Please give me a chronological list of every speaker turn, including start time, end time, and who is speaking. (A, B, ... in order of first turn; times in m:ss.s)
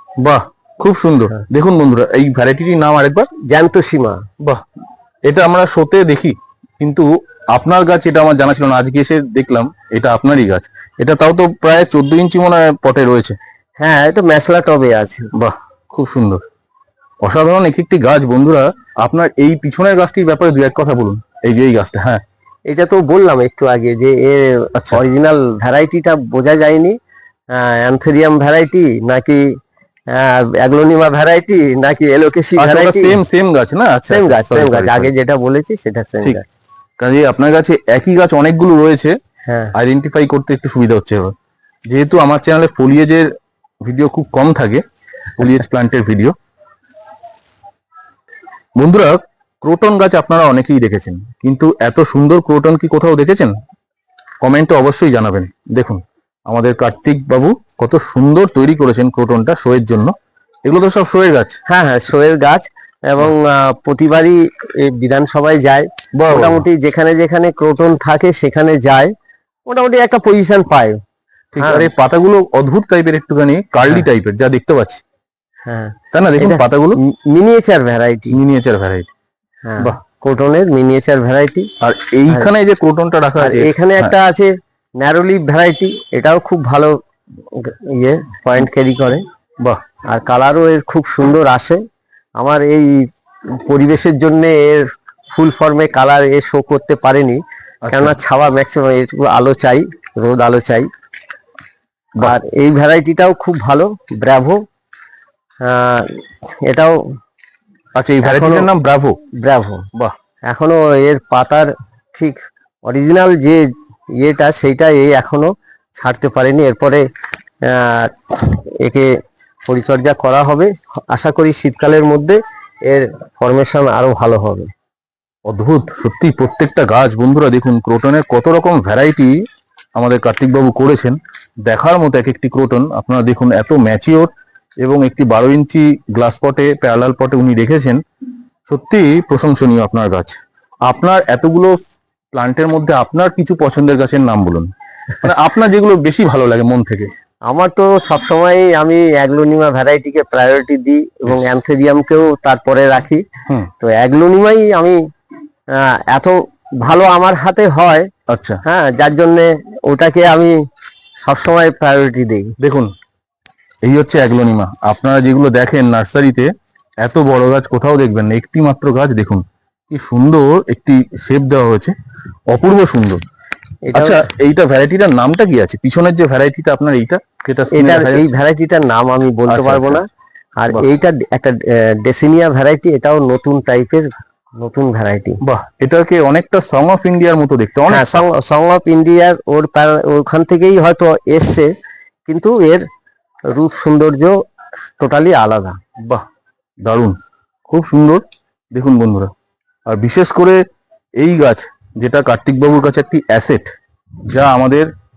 0:00.2-0:03.3 A
0:03.5-0:04.2 B
0:05.3-0:13.4 A
0:13.8-0:15.3 B
0:15.3-0:16.4 A
0:17.2-0:22.2 A
0:22.7-0:27.0 B
0:24.8-0:25.0 A
0:27.5-0:29.5 B
0:30.1-0:33.2 B
0:32.6-0:35.1 A
0:34.1-0:36.5 B
0:37.0-0:39.2 A
0:39.5-0:39.7 B
0:39.7-0:41.3 A
0:41.9-0:43.3 A
0:43.8-0:44.8 A
0:45.4-0:46.4 A
0:48.8-0:53.6 A
0:54.4-1:00.1 A
1:00.6-1:01.6 A
1:01.7-1:09.1 B
1:06.1-1:06.6 A
1:09.7-1:11.0 B
1:11.5-1:15.0 A
1:11.6-1:11.9 B
1:15.6-1:18.4 B
1:16.1-1:17.0 A
1:18.3-1:19.1 A
1:19.6-1:21.7 B
1:21.8-1:24.1 A
1:23.4-1:29.2 B
1:30.0-1:31.8 B
1:32.4-1:40.9 B
1:37.8-1:38.2 A
1:42.2-1:44.6 B
1:45.6-1:47.2 B
1:48.0-1:49.2 A
1:48.2-1:48.7 B
1:49.3-1:49.9 B
1:50.4-1:53.6 B
1:54.2-1:57.1 B
1:57.6-2:04.7 B
2:05.5-2:09.4 A
2:10.0-2:14.3 A
2:14.8-2:18.0 A
2:18.7-2:21.8 A
2:22.3-2:27.1 A
2:27.5-2:33.3 B
2:33.8-2:35.0 B
2:35.7-2:38.1 B
2:38.3-2:38.6 A
2:38.6-2:40.6 B
2:41.2-2:42.5 B
2:42.6-2:42.9 A
2:43.8-2:52.0 A
2:52.5-2:53.2 A
2:53.9-2:54.3 B
2:53.9-2:58.4 A
2:57.7-3:00.1 B
2:59.5-3:00.1 A
3:00.6-3:05.4 B
3:05.4-3:08.2 A
3:07.9-3:11.7 B
3:12.3-3:12.9 B
3:13.5-3:14.4 B
3:15.0-3:15.8 B
3:16.8-3:17.2 A
3:17.7-3:18.2 A
3:18.7-3:19.3 A
3:19.9-3:20.6 A
3:21.2-3:23.7 A
3:24.3-3:24.9 A